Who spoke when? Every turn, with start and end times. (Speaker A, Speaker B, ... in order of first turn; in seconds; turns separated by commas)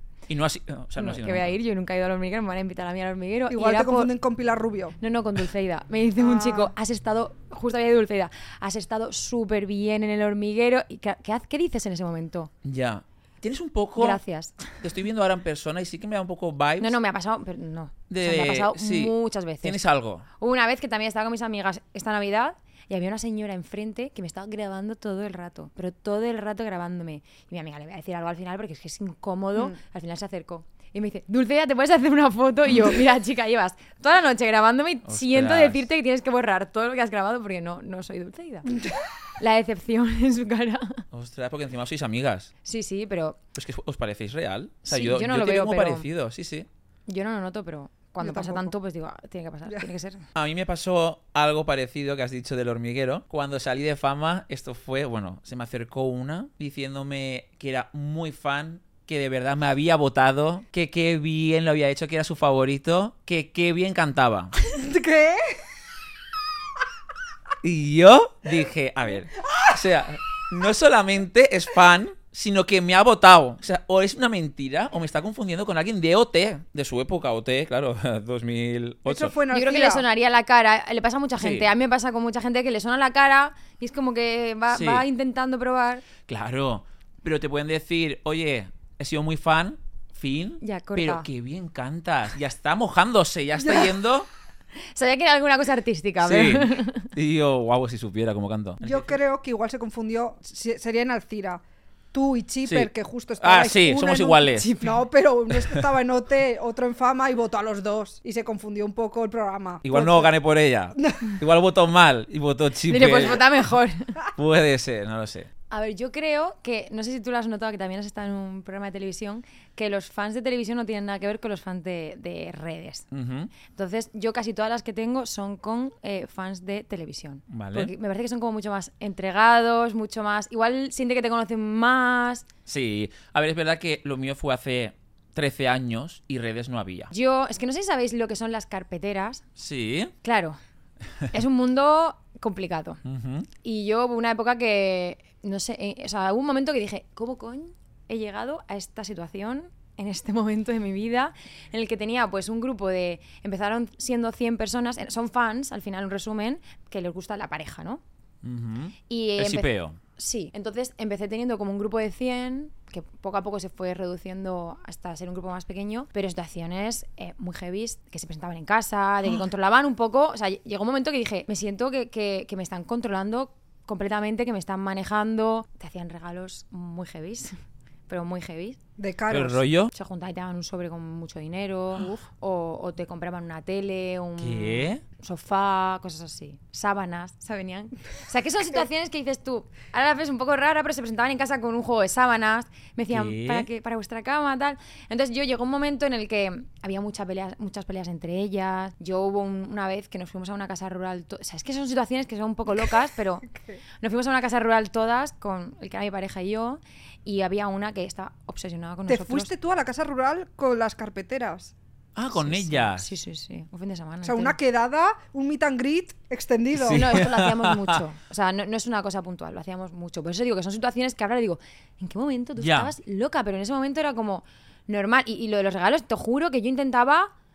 Speaker A: 0.3-1.6, Speaker B: 0.9-4.1, Speaker C: 3.5-5.0, Speaker B: 5.0-12.5, Speaker C: 6.2-6.7, Speaker A: 12.6-14.2, Speaker B: 14.0-14.8, Speaker A: 14.8-17.0, Speaker B: 16.8-19.8, Speaker A: 18.1-20.2, Speaker B: 20.4-38.8, Speaker A: 35.0-35.9, Speaker B: 39.4-41.0, Speaker A: 41.1-42.5, Speaker B: 42.6-43.4, Speaker A: 43.5-46.7, Speaker B: 44.9-46.1, Speaker B: 47.1-50.2, Speaker C: 48.2-48.7, Speaker A: 50.3-64.5, Speaker C: 64.7-65.6, Speaker A: 67.6-79.3, Speaker C: 79.0-80.0, Speaker B: 79.5-86.0, Speaker A: 81.4-81.7, Speaker A: 84.7-85.0, Speaker A: 86.3-94.3, Speaker B: 90.6-91.3, Speaker B: 94.8-97.1, Speaker A: 96.2-99.1, Speaker C: 98.8-101.6, Speaker C: 102.1-110.3, Speaker A: 102.6-104.7, Speaker B: 104.5-105.0, Speaker A: 105.5-105.8, Speaker A: 109.8-113.5, Speaker B: 112.9-114.2, Speaker A: 114.3-115.5, Speaker B: 115.7-123.0, Speaker A: 123.1-123.5, Speaker B: 123.7-132.4, Speaker A: 127.5-127.9, Speaker A: 132.7-137.1, Speaker B: 137.1-139.4, Speaker A: 139.6-140.1, Speaker B: 140.2-140.6, Speaker B: 141.3-143.0, Speaker A: 143.0-143.5, Speaker B: 143.6-158.0, Speaker A: 158.4-160.0, Speaker B: 159.1-177.5, Speaker B: 178.1-178.8, Speaker C: 179.0-179.6, Speaker A: 179.3-179.9, Speaker B: 179.9-203.5, Speaker A: 184.4-185.0, Speaker A: 193.1-193.7, Speaker B: 204.0-209.5, Speaker C: 209.1-211.7, Speaker A: 212.1-213.1, Speaker B: 212.3-214.6, Speaker C: 214.2-217.1, Speaker A: 216.7-218.0, Speaker B: 216.9-227.3, Speaker A: 222.6-222.9